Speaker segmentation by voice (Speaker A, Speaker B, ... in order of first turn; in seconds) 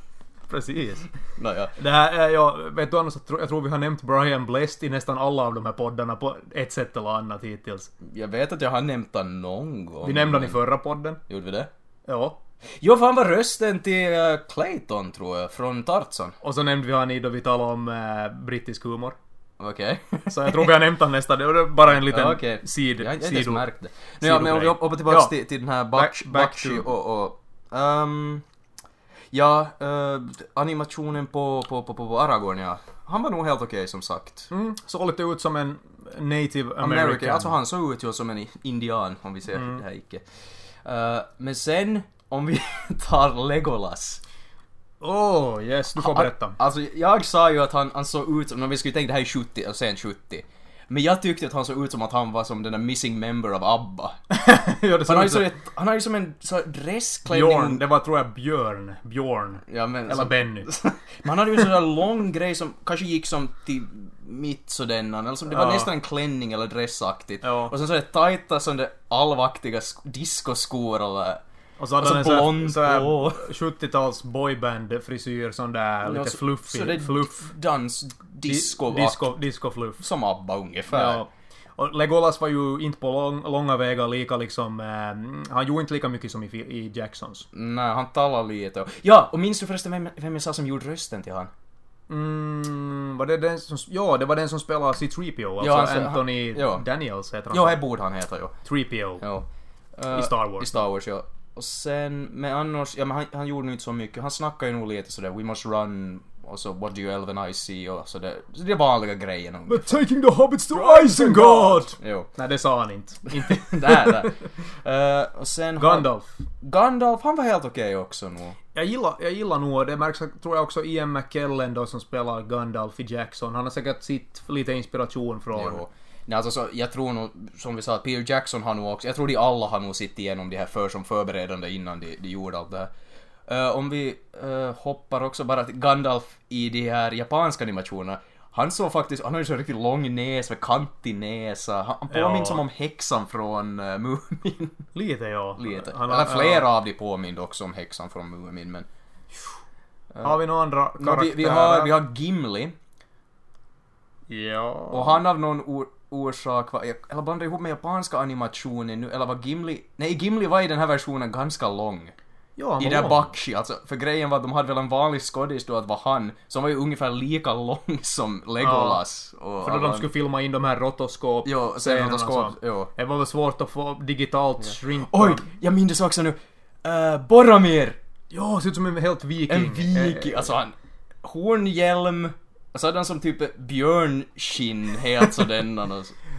Speaker A: 0.5-1.1, 1.8-7.9, 10.0-11.2, 12.1-12.4, 16.4-19.1, 20.3-23.6, 24.2-25.4, 25.9-26.9, 34.5-37.5, 39.5-39.8, 45.0-46.6, 54.3-55.5, 57.2-60.7, 65.5-65.9, 67.4-67.7, 71.8-77.5, 78.5-80.0, 80.9-87.5, 92.1-97.8, 98.6-99.2, 100.1-100.7, 109.7-114.3, 115.8-116.3, 118.7-125.8, 142.1-142.6, 144.9-146.7, 150.2-152.0, 154.3-155.2, 162.6-163.3, 168.6-169.0, 169.6-175.5, 178.3-180.5
Speaker B: 1.4-1.7, 8.0-10.6, 11.3-11.7, 12.8-16.4, 19.6-20.7, 21.8-28.4, 29.3-34.5, 36.8-40.2, 40.8-44.2, 46.0-54.2, 55.0-57.8, 59.7-71.4, 72.0-73.5, 76.0-79.4, 80.0-81.2, 87.5-91.5, 95.6-96.8, 97.5-98.5, 99.2-109.9, 110.7-112.3, 113.3-116.1, 116.6-118.5, 125.5-132.9, 133.5-144.8, 145.6-148.9, 150.1-150.4, 151.0-152.7, 154.9-162.1, 162.8-170.1, 171.4-172.9, 174.6-178.0, 179.5-186.1